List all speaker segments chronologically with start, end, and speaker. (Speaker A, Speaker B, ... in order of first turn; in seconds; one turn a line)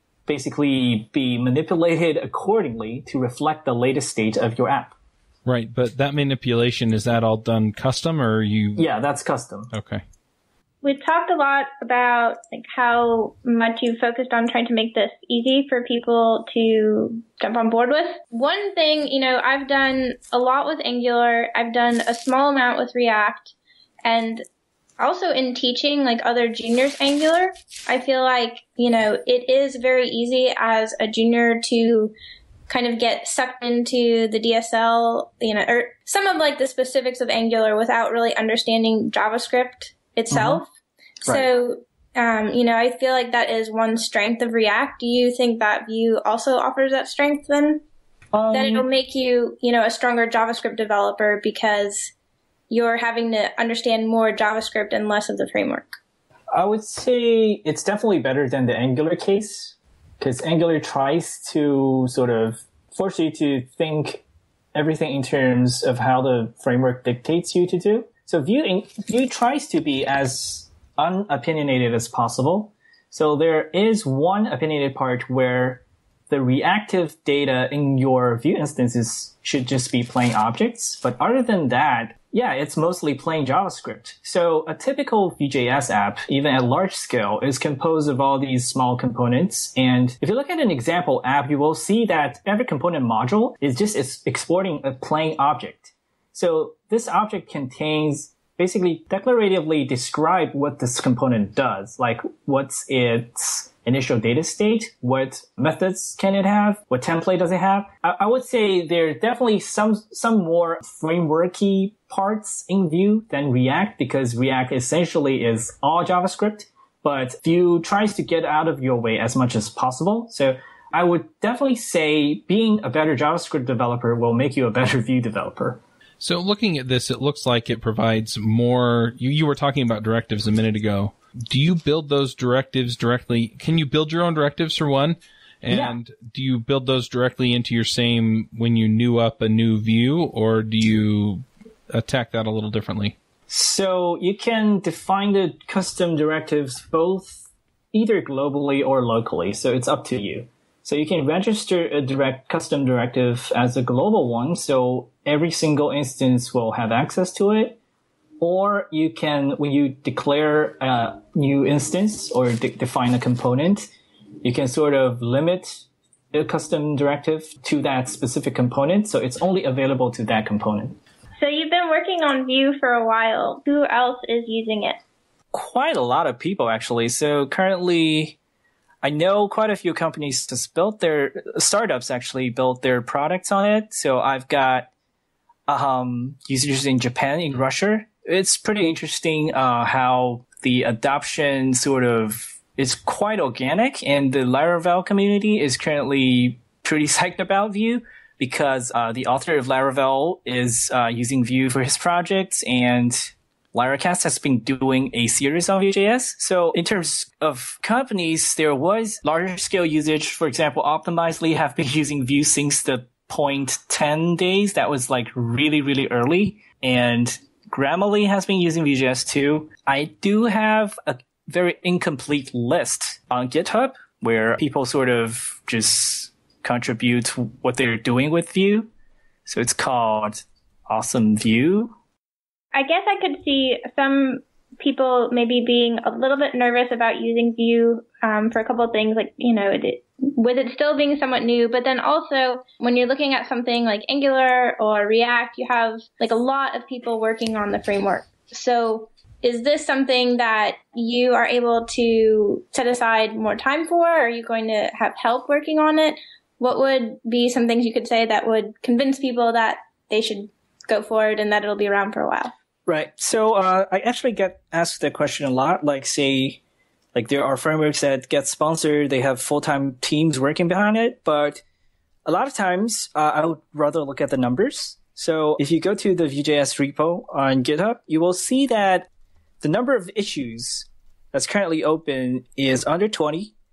Speaker A: 0.3-4.9
Speaker B: 5.5-8.9
Speaker A: 8.8-9.7
Speaker B: 9.7-10.0
Speaker C: 10.8-24.4
Speaker C: 25.0-32.1
Speaker C: 32.7-40.7
Speaker A: 40.3-40.6
Speaker C: 41.3-47.8
Speaker A: 48.3-48.9
Speaker C: 48.5-52.1
Speaker C: 52.7-55.9
Speaker A: 56.5-64.2
Speaker A: 64.7-125.8
Speaker B: 126.2-143.2
Speaker A: 135.7-136.0
Speaker A: 143.5-157.8
Speaker A: 158.4-163.9
Speaker A: 164.4-171.0
Speaker C: 171.4-175.0
Speaker A: 175.5-178.4
Speaker A: 179.0-184.9
Speaker A: 185.7-228.9
Speaker A: 229.5-231.9
Speaker C: 232.7-262.5
Speaker A: 262.9-266.6
Speaker A: 267.1-271.6
Speaker A: 272.2-279.1
Speaker A: 279.6-283.5